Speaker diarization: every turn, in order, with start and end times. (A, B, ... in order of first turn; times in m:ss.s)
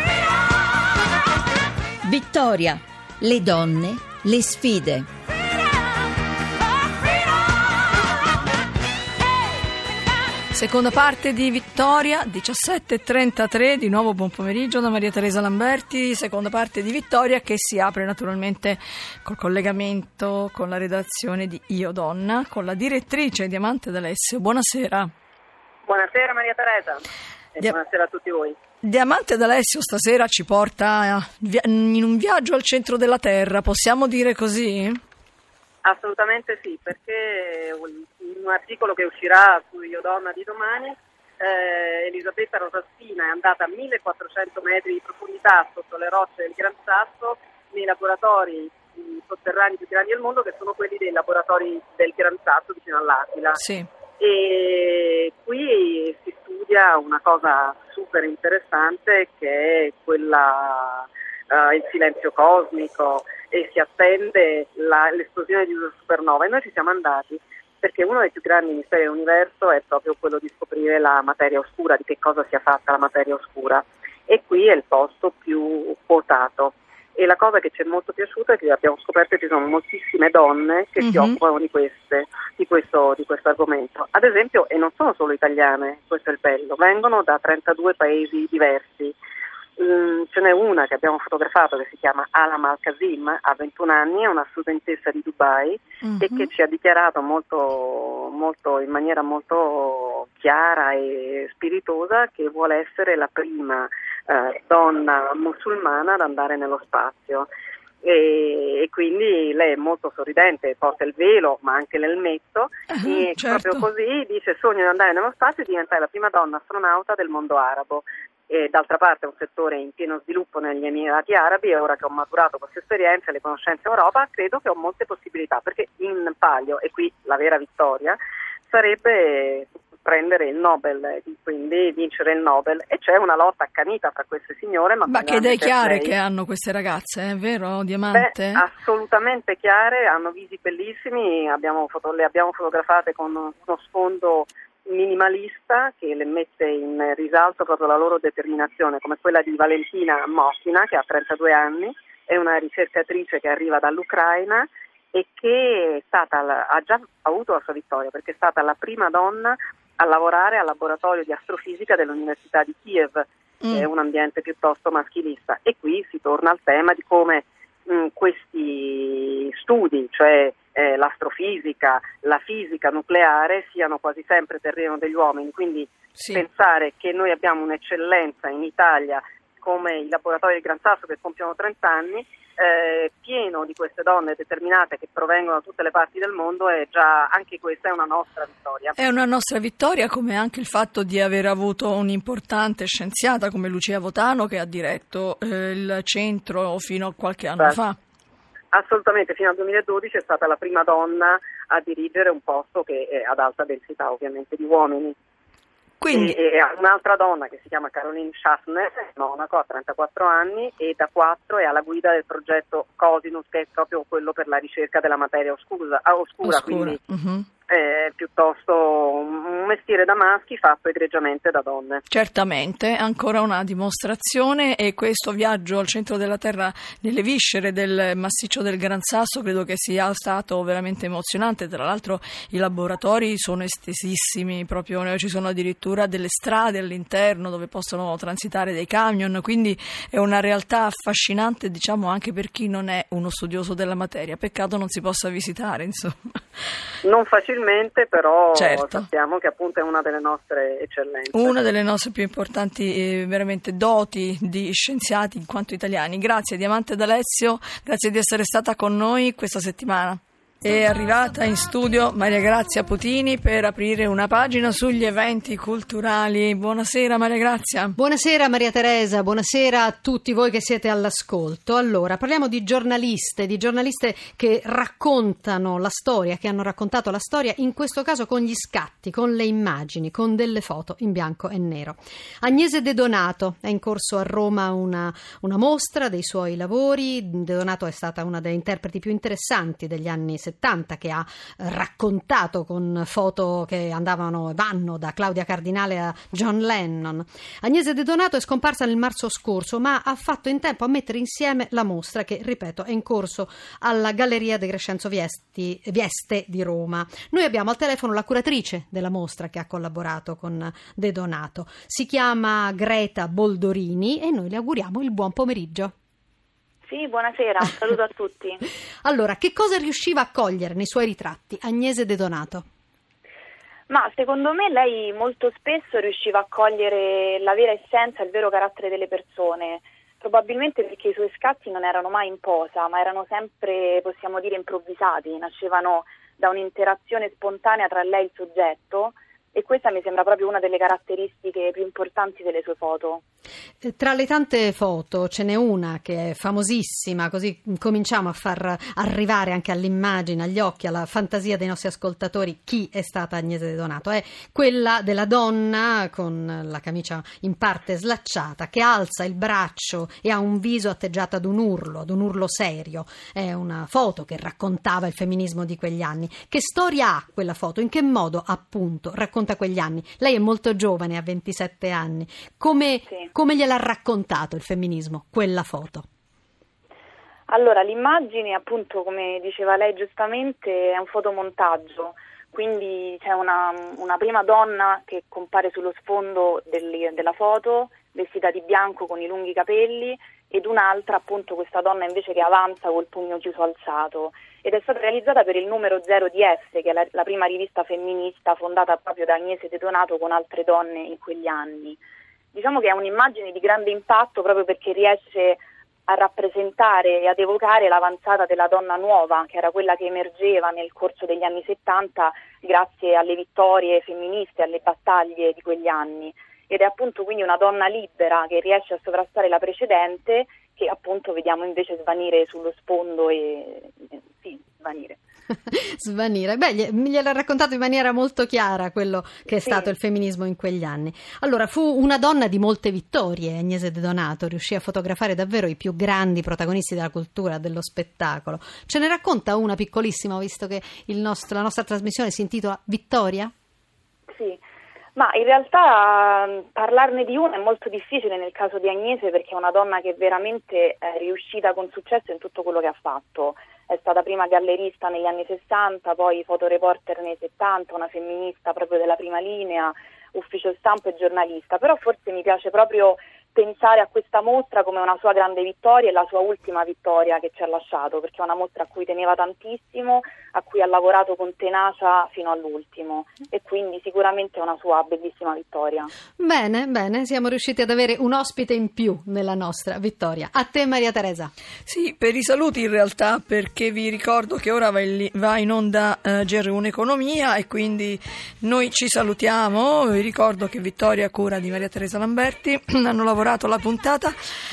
0:02.0-0:05.1 A
0:10.5-0:25.1 B
0:25.9-0:28.6 C
0:28.8-0:35.0 B
0:35.8-0:53.6 C
0:53.6-0:53.9 B
0:54.2-1:29.2 C
1:21.0-1:21.4 B
1:29.8-1:47.5 C
1:36.0-1:36.5 B
1:48.0-2:16.2 C
1:52.9-1:53.8 B
2:15.1-2:18.6 B
2:18.1-3:09.0 C
2:43.6-2:43.9 B
2:56.2-2:56.4 B
3:09.0-3:18.0 B
3:18.7-3:25.2 C
3:26.0-3:26.4 B
3:26.1-3:37.0 C
3:36.4-3:37.5 B
3:37.7-3:42.0 C
3:42.1-4:06.2 B
4:07.0-4:11.6 C
4:08.5-4:09.1 B
4:11.3-4:28.0 B
4:28.0-5:15.9 D
5:16.9-5:18.6 E
5:19.0-5:22.6 D
5:23.9-5:43.2 E
5:43.8-6:16.1 D
6:17.5-6:42.0 E
6:42.5-7:05.2 E
7:05.7-7:23.5 D
7:24.3-7:24.6 E
7:25.2-7:56.1 E
7:56.4-8:01.5 D
8:01.9-8:14.3 B